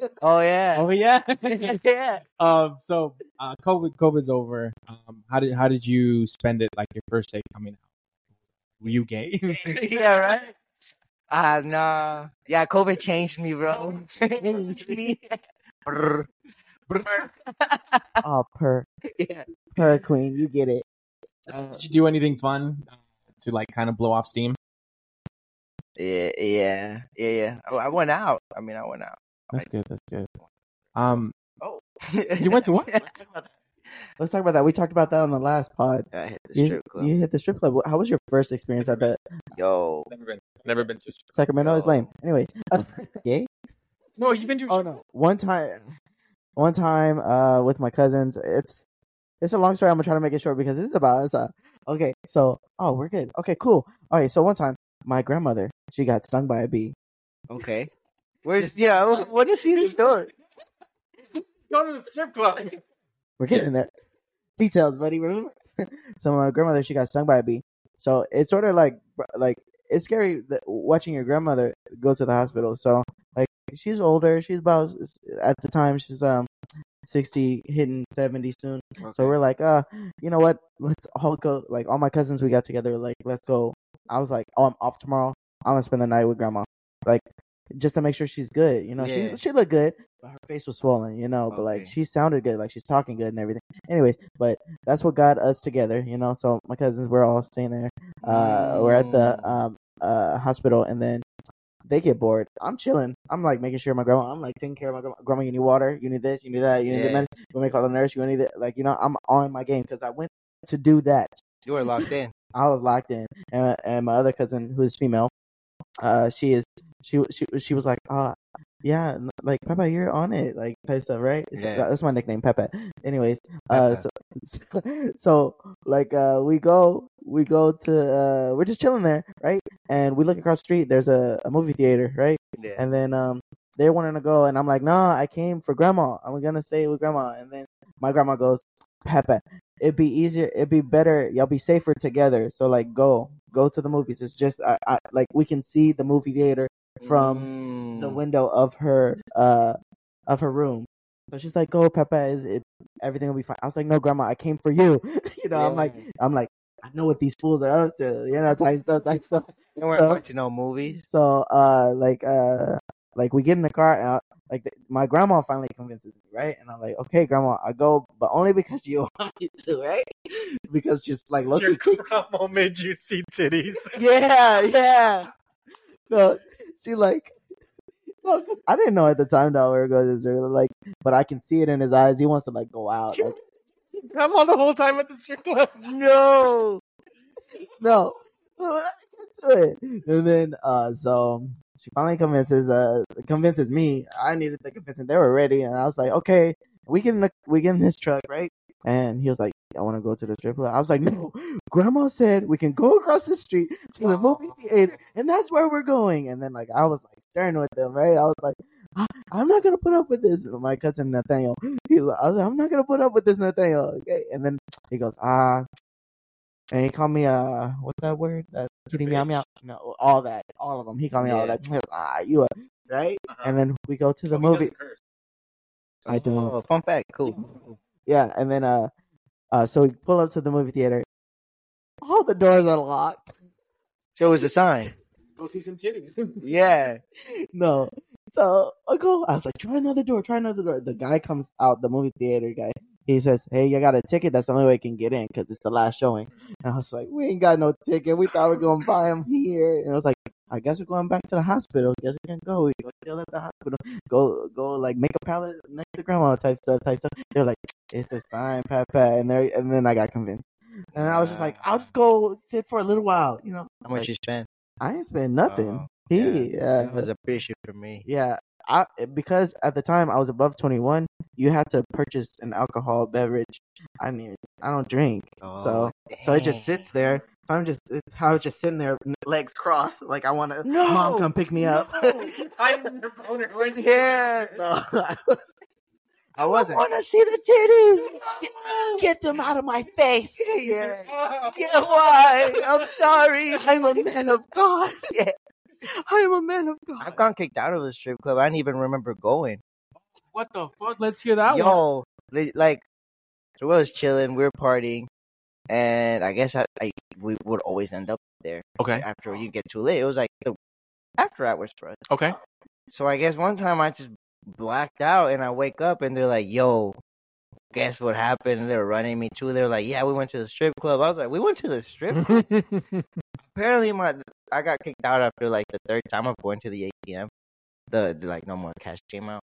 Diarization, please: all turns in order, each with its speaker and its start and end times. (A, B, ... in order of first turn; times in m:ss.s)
0:00.2-0:00.9 A
0:00.8-0:07.8 B
0:08.8-0:09.6 B
0:09.6-0:10.5 A
0:11.3-0:15.3 A
0:15.9-0:16.3 A
0:16.9-0:18.1 A
0:18.2-0:18.9 C
0:19.1-0:19.5 A
0:19.8-0:20.8 C
0:21.5-0:21.8 A
0:21.8-0:22.9 B
0:23.4-0:24.6 B
0:26.0-0:29.7 A
0:29.5-0:30.3 B
0:31.0-0:31.3 B
0:32.4-0:33.0 B
0:32.9-0:33.5 C
0:34.2-0:39.2 C
0:36.1-0:37.1 A
0:38.8-0:39.1 B
0:39.6-0:40.1 A
0:40.1-0:41.3 B
0:41.3-0:43.5 C
0:41.6-0:42.1 A
0:44.2-0:44.9 B
0:44.7-0:46.0 C
0:46.6-0:48.8 C
0:49.4-0:57.0 C
0:57.5-0:57.9 A
0:58.4-1:00.3 A
1:01.7-1:02.7 B
1:03.4-1:03.9 C
1:04.6-1:16.5 C
1:17.1-1:41.2 C
1:19.0-1:19.4 A
1:29.0-1:29.4 A
1:31.5-1:31.9 A
1:38.2-1:39.6 A
1:41.9-1:51.4 C
1:46.9-1:47.3 A
1:51.6-1:52.3 A
1:52.5-1:55.3 C
1:56.0-2:27.5 C
2:01.6-2:01.9 A
2:03.7-2:04.0 A
2:12.6-2:12.8 A
2:27.0-2:28.2 A
2:28.0-2:29.8 C
2:30.3-2:40.2 C
2:35.5-2:36.0 A
2:39.8-2:41.0 A
2:41.1-2:50.1 C
2:50.7-2:52.0 C
2:51.5-2:54.0 B
2:53.9-2:55.3 C
2:56.1-2:57.3 C
2:58.2-3:03.4 C
3:03.9-3:05.9 B
3:05.8-3:06.8 C
3:07.8-3:35.6 C
3:36.7-3:44.7 C
3:39.0-3:39.4 B
3:41.2-3:41.6 A
3:43.3-3:43.6 B
3:44.3-3:45.0 B
3:46.0-3:47.4 A
3:46.1-3:46.6 C
3:47.3-3:48.9 C
3:49.5-3:51.1 C
3:52.0-3:53.3 C
3:54.2-3:54.9 A
3:55.4-3:56.4 B
3:56.4-3:57.0 C
3:57.5-4:24.1 C
4:21.0-4:21.9 A
4:23.8-4:24.5 A
4:24.8-4:27.1 C
4:25.5-4:28.0 A
4:28.0-4:42.3 C
4:35.4-4:36.9 A
4:40.6-4:42.3 A
4:42.3-4:44.0 B
4:43.8-4:45.4 C
4:46.4-4:46.8 C
4:46.4-4:48.8 A
4:49.0-4:55.3 C
4:50.4-4:51.0 A
4:51.0-4:52.7 B
4:56.0-4:57.2 C
4:57.0-4:59.6 A
5:00.3-5:01.8 B
5:01.5-5:02.8 A
5:03.6-5:05.1 A
5:05.7-5:10.6 A
5:08.8-5:09.0 B
5:11.2-5:12.1 A
5:12.1-5:12.4 B
5:12.9-5:17.0 A
5:17.7-5:22.4 A
5:22.1-5:23.1 B
5:23.5-5:27.3 A
5:27.9-5:29.4 A